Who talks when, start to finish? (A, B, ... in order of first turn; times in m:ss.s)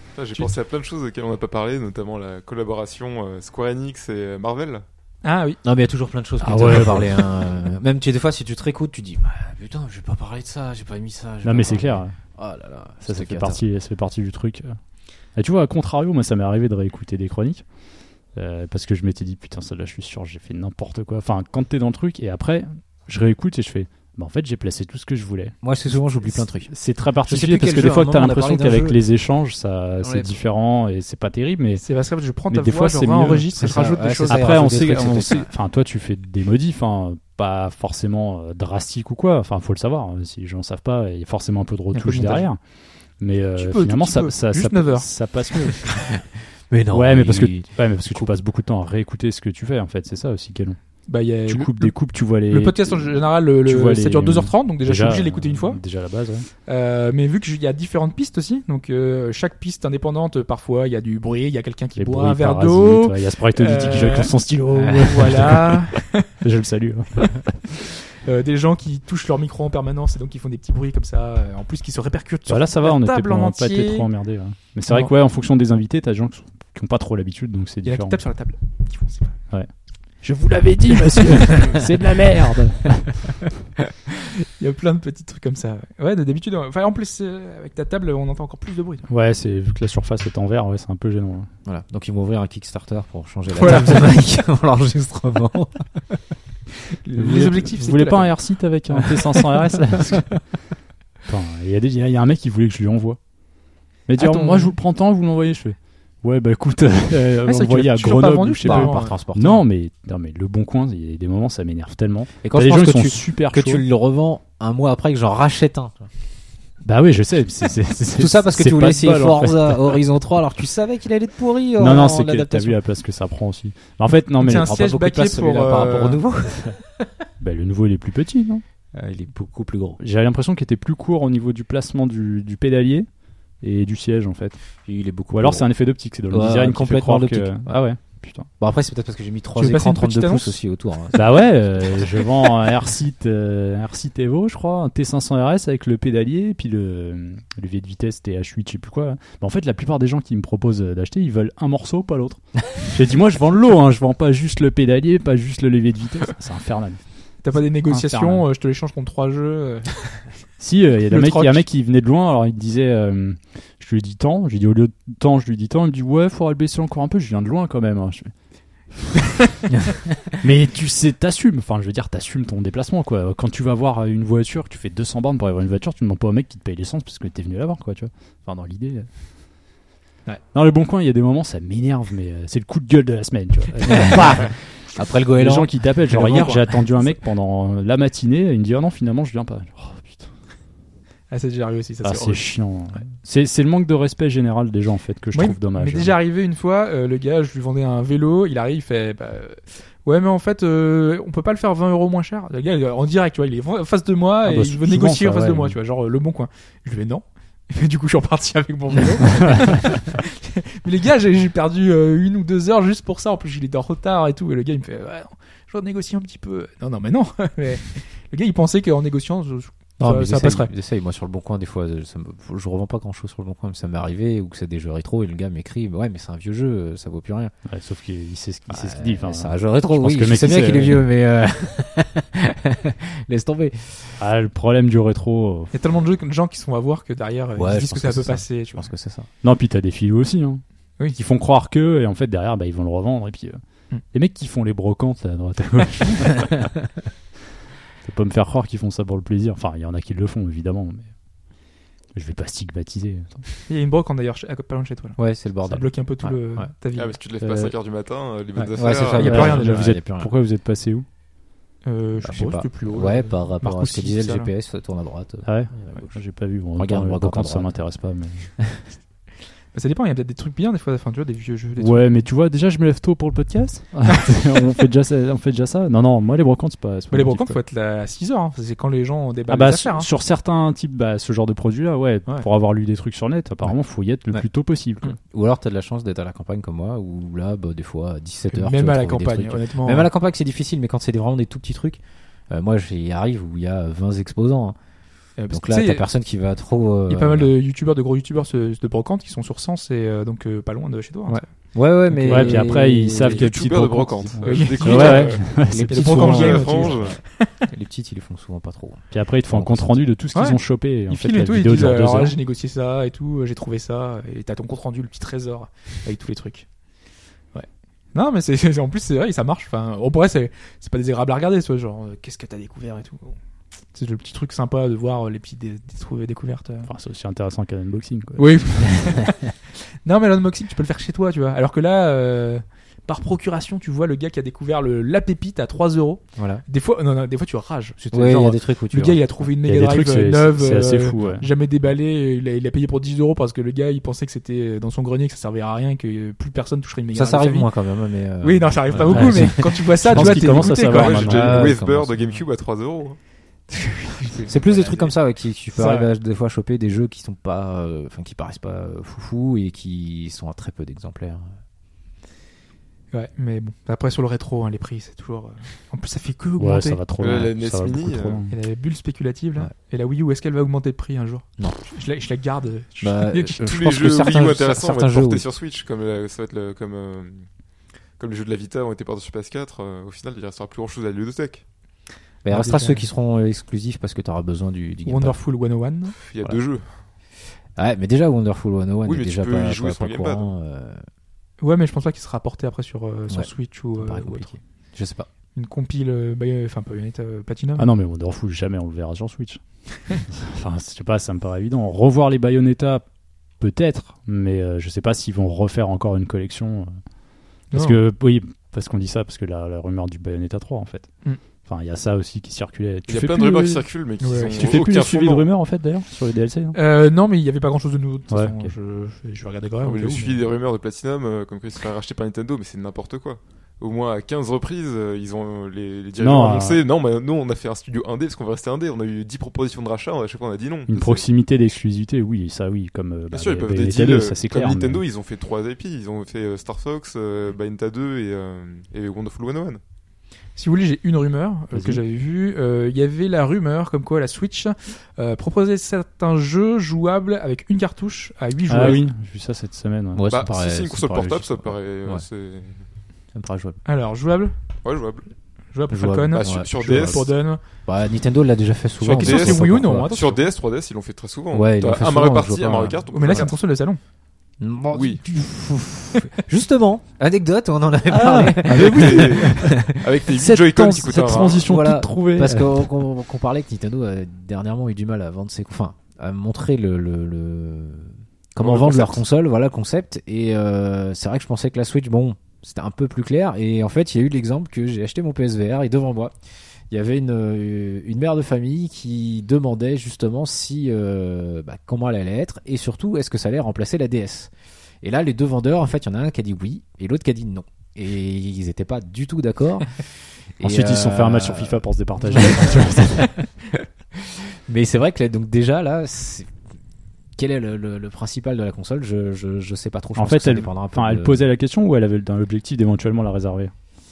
0:00.2-0:04.8 A
0:05.2-0:05.6 B
0:05.6-0:13.6 C
0:06.4-0:07.2 D
0:11.4-0:12.1 D
0:13.0-0:14.8 D
0:15.4-0:17.6 D
0:18.4-0:25.6 D
0:25.6-0:26.7 C
0:26.3-0:31.8 D
0:27.3-0:29.0 C
0:30.0-0:30.3 C
0:31.8-0:34.6 B
0:32.5-0:33.5 D
0:33.5-0:35.5 C
0:34.2-0:42.6 D
0:41.9-0:42.5 B
0:43.2-0:46.1 D
0:43.6-0:45.1 B
0:46.0-0:48.3 C
0:46.9-0:50.8 D
0:51.1-0:51.9 B
0:51.5-0:56.5 D
0:52.5-0:55.8 B
0:56.7-1:04.3 B
1:02.0-1:05.8 D
1:04.8-1:05.1 C
1:05.0-1:06.3 B
1:06.4-1:07.5 D
1:07.7-1:14.1 B
1:12.5-1:18.2 D
1:17.9-1:19.4 B
1:20.2-1:23.3 D
1:20.9-1:21.8 B
1:24.2-1:29.1 B
1:29.1-1:31.5 D
1:31.6-1:36.1 C
1:33.6-1:34.1 B
1:37.0-1:38.4 B
1:37.2-1:40.4 D
1:39.1-1:40.2 B
1:41.3-1:43.2 D
1:44.1-1:53.8 D
1:44.2-1:44.8 B
1:47.5-1:49.1 B
1:48.6-1:49.6 C
1:52.4-1:56.1 C
1:56.8-2:00.0 D
1:58.2-2:02.8 C
2:01.8-2:05.0 D
2:04.4-2:06.2 B
2:04.5-2:07.1 C
2:07.4-2:08.6 D
2:08.9-2:10.0 C
2:10.0-2:13.1 D
2:13.6-2:14.6 D
2:14.8-2:15.7 C
2:15.3-2:18.5 D
2:16.3-2:17.8 C
2:18.6-2:22.2 C
2:19.6-2:20.6 B
2:21.1-2:37.0 D
2:37.4-2:40.3 B
2:37.9-2:38.5 D
2:40.6-2:48.3 D
2:41.1-2:41.6 B
2:48.9-2:49.4 D
2:50.3-2:59.1 D
3:00.5-3:04.6 D
3:03.9-3:06.7 C
3:05.4-3:10.3 D
3:06.2-3:06.6 B
3:11.3-3:12.5 B
3:12.0-3:16.2 D
3:15.3-3:40.7 B
3:24.4-3:25.8 D
3:40.0-3:47.5 C
3:47.7-3:51.0 D
3:48.7-3:54.2 C
3:54.2-3:55.7 D
3:55.7-3:58.9 B
3:57.6-3:59.3 C
3:59.4-4:03.6 D
4:04.1-4:06.7 D
4:08.0-4:11.1 D
4:12.1-4:13.4 D
4:13.7-4:17.2 B
4:15.2-4:16.7 C
4:17.0-4:19.5 A
4:17.4-4:17.7 D
4:18.7-4:20.3 C
4:19.1-4:20.0 B
4:19.2-4:21.1 D
4:21.8-4:24.5 B
4:22.2-4:26.2 C
4:25.4-4:28.6 D
4:26.8-4:27.7 C
4:29.7-4:32.2 B
4:31.8-4:37.6 D
4:37.1-4:40.1 B
4:39.5-4:45.2 D
4:45.2-4:54.8 C
4:48.5-4:50.1 B
4:55.4-4:56.1 B
4:55.5-4:57.5 C
4:57.1-5:01.4 B
5:01.7-5:03.5 C
5:02.1-5:06.2 D
5:03.3-5:07.1 A
5:04.4-5:07.5 B
5:05.7-5:10.0 C
5:09.1-5:12.4 D
5:10.3-5:16.7 B
5:17.5-5:23.4 B
5:23.9-5:26.9 B
5:26.9-5:29.0 D
5:28.4-5:29.5 B
5:30.0-5:47.7 B
5:36.4-5:36.6 C
5:38.1-5:39.2 C
5:39.6-5:41.5 D
5:47.1-5:49.6 C
5:48.4-5:51.4 B
5:48.9-5:51.8 D
5:50.2-5:53.2 A
5:51.2-5:52.4 C
5:53.7-5:54.7 B
5:54.5-6:01.6 C
5:54.6-5:55.1 A
5:55.8-5:56.1 B
6:03.1-6:07.0 B
6:06.6-6:08.5 D
6:07.2-6:08.4 A
6:08.5-6:13.6 B
6:13.0-6:15.5 C
6:13.6-6:17.5 A
6:18.2-6:21.6 A
6:22.4-6:25.4 C
6:22.5-6:23.1 B
6:25.1-6:26.2 B
6:26.2-6:26.9 A
6:27.8-6:31.0 C
6:29.0-6:30.5 A
6:31.6-6:34.5 B
6:33.3-6:35.3 C
6:35.6-6:37.9 B
6:37.8-6:39.6 D
6:40.3-6:43.0 D
6:43.6-6:47.0 D
6:47.7-6:48.0 B
6:47.7-6:51.1 D
6:51.6-6:53.8 D
6:53.1-6:55.5 A
6:54.2-6:54.6 B
6:54.5-6:56.8 D
6:56.7-7:00.4 B
6:58.3-6:58.7 D
6:59.8-7:11.2 A
7:06.2-7:06.8 D
7:10.9-7:15.0 D
7:13.3-7:19.8 A
7:20.6-7:29.0 B
7:21.7-7:22.0 D
7:28.7-7:30.3 D
7:30.2-7:32.2 C
7:30.3-7:32.8 A
7:33.3-7:33.8 C
7:33.8-7:34.6 B
7:34.8-7:35.3 A
7:35.7-7:37.6 B
7:35.9-7:37.3 C
7:36.3-7:37.3 A
7:37.8-7:40.1 C
7:39.0-7:43.5 A
7:39.2-7:40.4 B
7:41.5-7:43.5 C
7:43.1-7:44.0 B
7:44.6-7:50.0 C
7:44.9-7:45.2 A
7:48.1-7:52.9 D
7:48.7-7:51.7 A
7:51.6-8:06.3 C
7:58.6-7:59.2 A
8:06.9-8:23.2 C
8:20.6-8:23.3 D
8:24.2-8:26.5 C
8:27.4-8:31.4 C
8:30.2-8:33.7 D